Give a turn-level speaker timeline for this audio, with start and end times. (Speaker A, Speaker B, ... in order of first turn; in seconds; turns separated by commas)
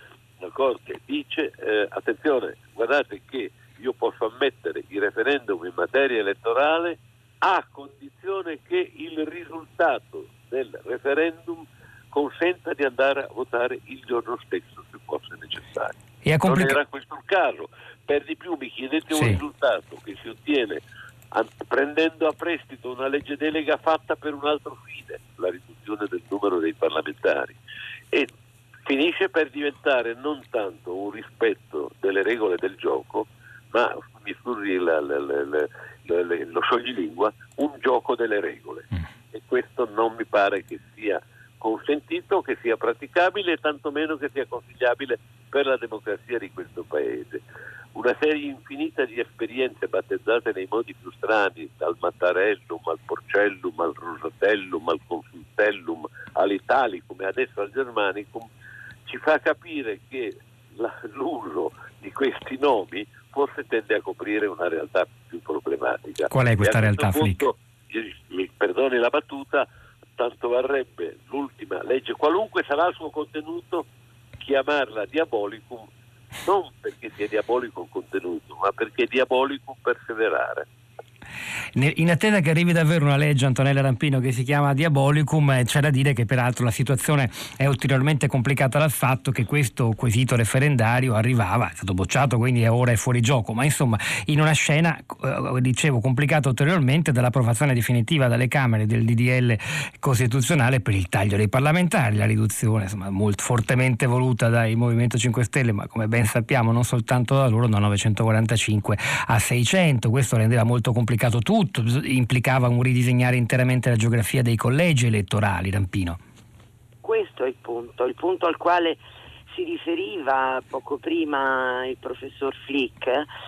Speaker A: 0.4-20.8, Speaker B: 16.2-16.8, Speaker B: 19.1-19.4, Speaker A: 21.3-27.6, Speaker A: 28.9-47.4, Speaker A: 47.9-58.5, Speaker A: 59.1-73.9, Speaker B: 66.3-67.5, Speaker A: 74.4-75.9, Speaker A: 76.4-80.7, Speaker B: 81.7-116.2, Speaker C: 117.0-123.3